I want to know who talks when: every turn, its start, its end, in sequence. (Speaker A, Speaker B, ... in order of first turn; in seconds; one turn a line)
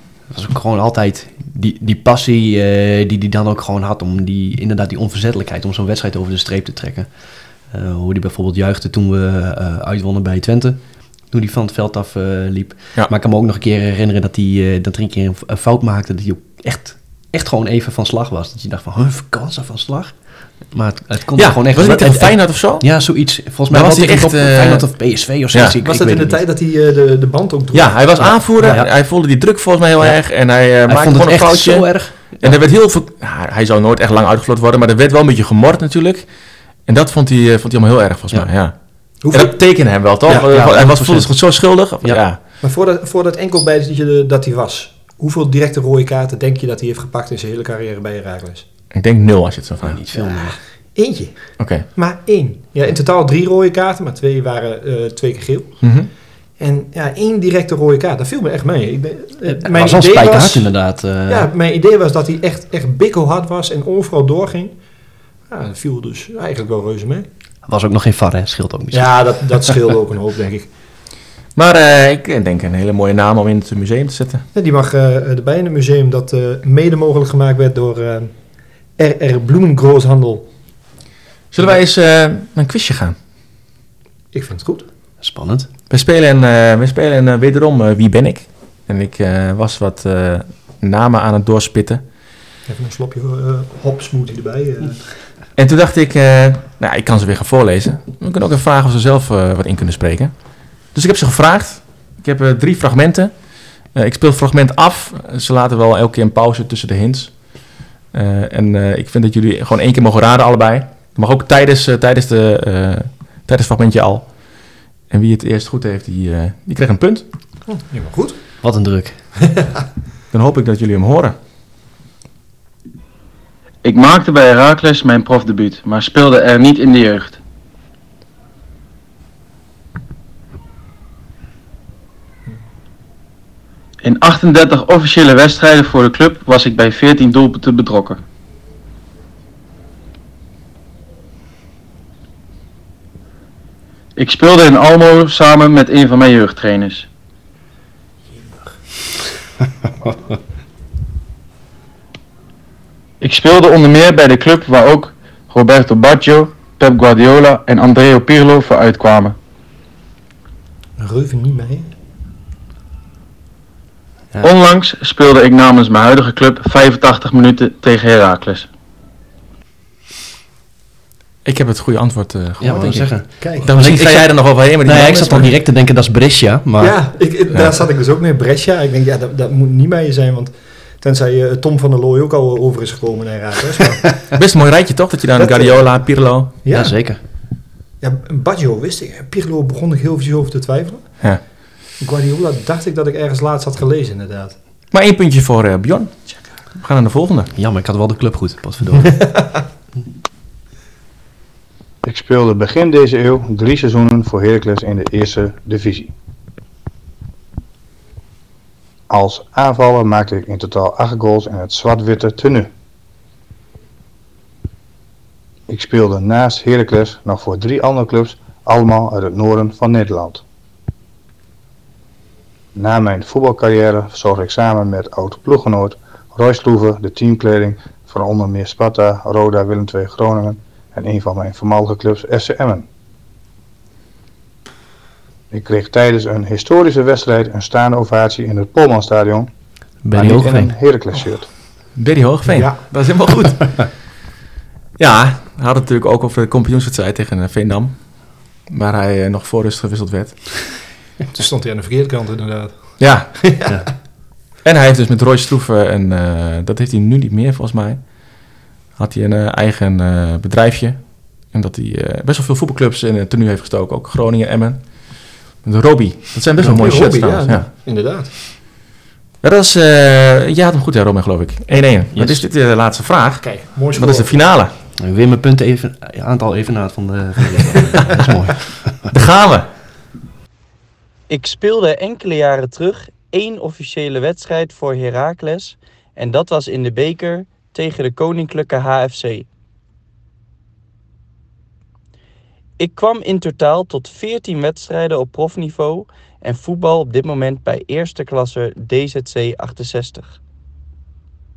Speaker A: 0.3-26.4
Speaker B: 21.3-23.0
Speaker B: 23.7-24.9
Speaker C: 25.8-28.8
Speaker B: 27.7-42.4
Speaker A: 28.2-28.9
Speaker A: 30.0-32.5
Speaker C: 39.2-39.5
Speaker A: 40.2-42.2
Speaker C: 42.6-48.6
Speaker B: 48.9-50.0
Speaker A: 49.8-50.6
Speaker C: 50.1-56.0
Speaker B: 51.6-51.8
Speaker B: 55.8-56.1
Speaker C: 56.6-64.7
Speaker A: 59.4-61.5
Speaker C: 65.5-67.2
Speaker A: 67.7-69.7
Speaker C: 68.9-70.7
Speaker B: 71.5-74.4
Speaker C: 74.5-78.3
Speaker C: 79.0-80.5
Speaker B: 81.5-83.2
Speaker C: 84.3-84.8
Speaker A: 85.2-85.7
Speaker B: 85.9-92.0
Speaker C: 92.7-95.2
Speaker B: 95.6-117.2
Speaker C: 117.7-118.4
Speaker A: 118.6-119.2
Speaker B: 120.3-121.3
Speaker D: 123.8-127.4
Speaker D: 134.0-138.2
Speaker D: 144.2-147.1
Speaker D: 153.2-159.4
Speaker C: 161.0-161.9
Speaker D: 164.4-168.7
Speaker B: 171.4-175.5
Speaker A: 172.6-176.9
Speaker C: 173.4-173.7
Speaker C: 176.8-184.3
Speaker B: 184.3-186.5
Speaker C: 185.3-187.1
Speaker A: 186.7-187.2
Speaker C: 188.0-191.3
Speaker C: 192.0-194.6
Speaker B: 194.9-197.5
Speaker A: 197.6-199.3
Speaker C: 199.1-199.6
Speaker E: 202.0-206.1
Speaker E: 209.1-212.7
Speaker E: 215.7-220.4
Speaker E: 222.7-232.8
Speaker E: 235.5-239.5
Speaker A: 240.0-240.7
Speaker E: 240.1-241.5
Speaker B: 241.9-243.9
Speaker C: 242.4-243.1
Speaker B: 245.0-250.8
Speaker C: 251.3-253.9
Speaker B: 253.0-253.7
Speaker B: 254.6-267.7
Speaker C: 266.6-268.3
Speaker B: 269.4-274.7
Speaker A: 272.1-272.4
Speaker C: 273.4-274.4
Speaker A: 275.0-279.1
Speaker B: 279.1-279.7
Speaker F: 281.3-289.5
Speaker F: 292.8-300.4